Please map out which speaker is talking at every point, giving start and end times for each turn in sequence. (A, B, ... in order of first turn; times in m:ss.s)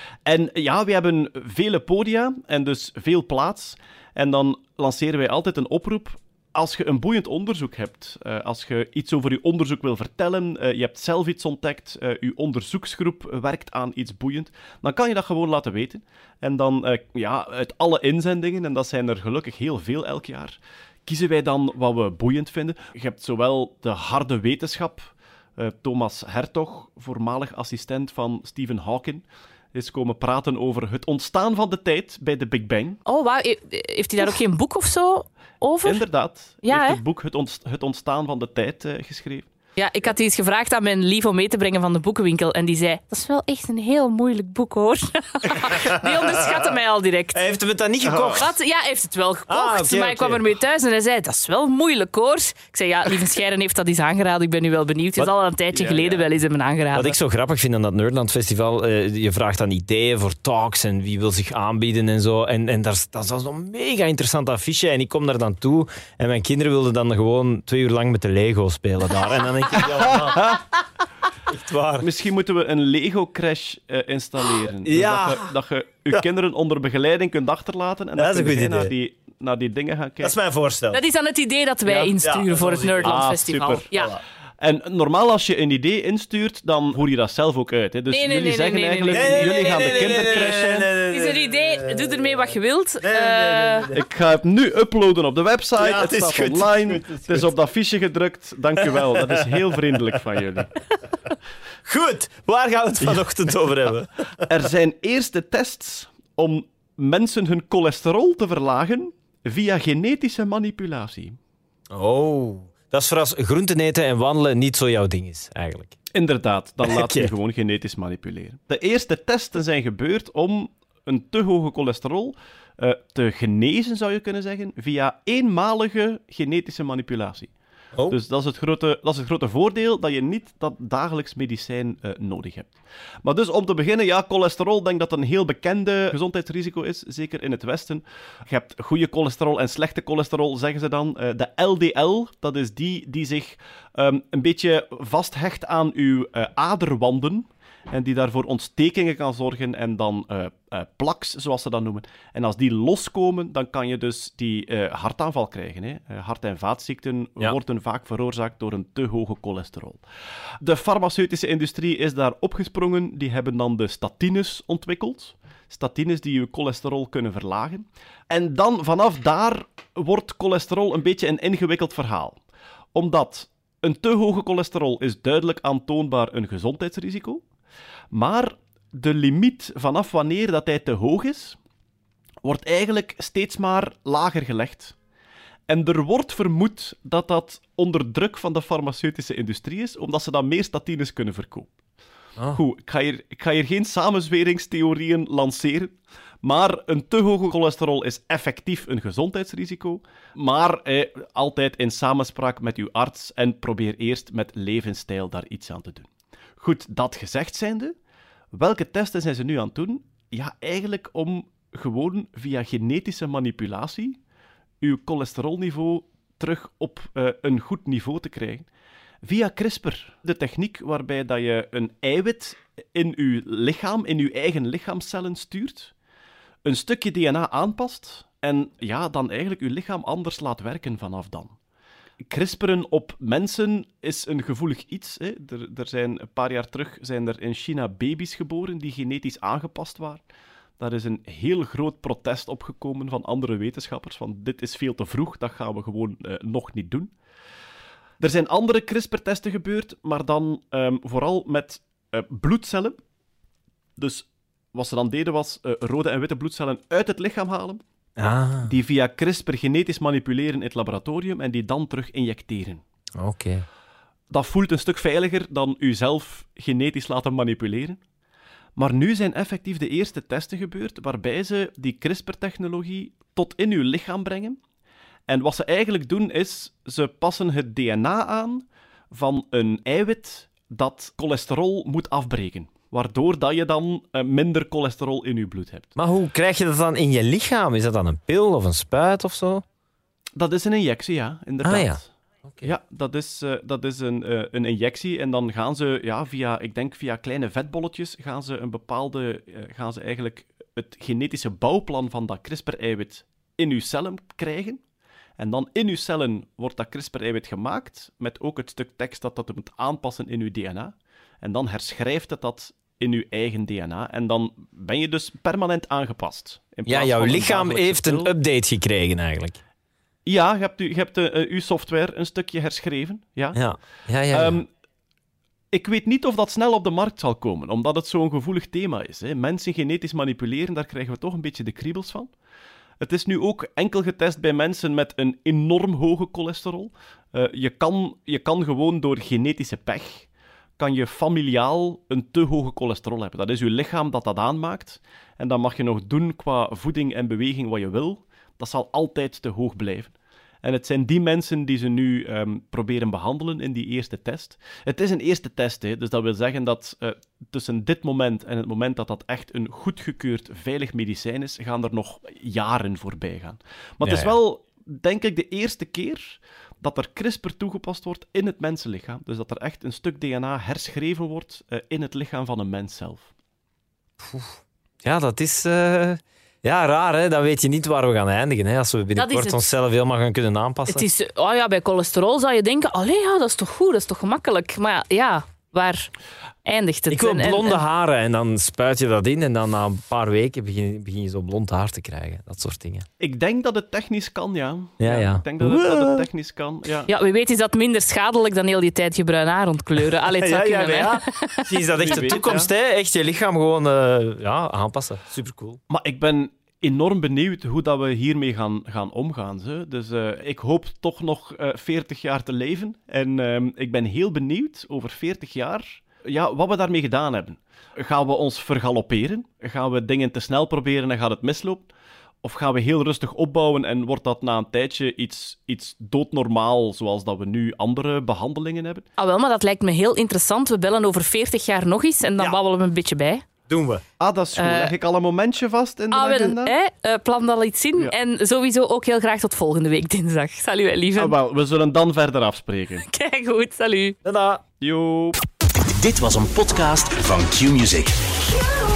0:00.3-0:33.0 A
0:33.1-0:36.1 B
0:35.8-0:39.5 A
0:36.6-0:37.0 B
0:39.8-0:47.4 B
0:45.6-0:46.5 C
0:47.3-0:48.5 C
0:48.0-0:48.4 A
0:48.4-0:57.2 B
0:49.5-0:50.4 C
0:55.7-0:56.3 A
0:56.9-1:10.6 C
1:11.5-1:12.1 C
1:12.0-1:20.4 A
1:14.8-1:15.5 C
1:18.2-1:18.9 C
1:20.2-1:21.0 C
1:20.9-1:24.2 B
1:21.9-1:23.2 C
1:23.0-1:23.9 A
1:24.0-1:24.2 C
1:24.6-1:30.9 A
1:28.1-1:30.4 B
1:29.1-1:32.3 C
1:31.1-1:33.9 B
1:33.0-1:34.1 C
1:33.9-1:40.7 A
1:35.8-1:37.6 C
1:38.8-1:39.6 C
1:41.9-1:44.5 C
1:44.5-1:51.4 A
1:51.9-1:56.0 C
1:56.1-2:07.5 A
1:56.8-1:57.3 C
2:08.1-2:12.7 A
2:13.2-2:40.0 A
2:40.6-2:52.4 A
2:52.9-2:57.4 A
2:58.1-3:01.6 A
3:02.4-3:05.0 A
3:05.7-3:11.7 A
3:12.5-3:27.9 A
3:28.5-3:34.2 A
3:34.8-3:38.7 A
3:39.2-3:45.9 A
3:46.6-3:51.6 A
3:52.2-4:00.2 A
4:00.8-4:07.1 A
4:08.2-4:13.0 A
4:14.0-4:17.8 A
4:18.2-4:18.7 C
4:18.7-4:22.8 A
4:23.2-4:23.6 C
4:24.3-4:28.0 A
4:28.8-4:34.6 A
4:35.3-4:46.0 A
4:46.0-4:49.6 C
4:50.4-4:52.1 A
4:51.6-4:52.7 C
4:52.6-5:04.8 A
5:05.4-5:18.3 A
5:16.9-5:19.6 C
5:20.2-5:23.6 A
5:23.5-5:24.6 C
5:24.3-5:24.7 A
5:25.7-5:32.3 A
5:33.0-6:13.3 A
6:04.0-6:04.4 C
6:15.0-6:21.0 C
6:19.2-6:19.6 B
6:20.9-6:26.1 B
6:26.6-6:27.8 B
6:27.1-6:33.1 C
6:33.2-6:37.1 A
6:35.0-6:36.3 C
6:37.1-6:41.6 B
6:40.3-6:45.8 C
6:42.0-6:42.7 A
6:42.1-6:42.4 B
6:45.9-7:01.9 A
7:02.4-7:09.1 A
7:09.2-7:13.4 B
7:13.7-7:14.0 C
7:14.2-7:16.8 A
7:14.6-7:15.0 B
7:16.1-7:21.4 B
7:21.2-7:23.1 A
7:23.0-7:24.2 B
7:24.2-7:24.6 C
7:24.8-7:25.4 A
7:25.8-7:28.2 D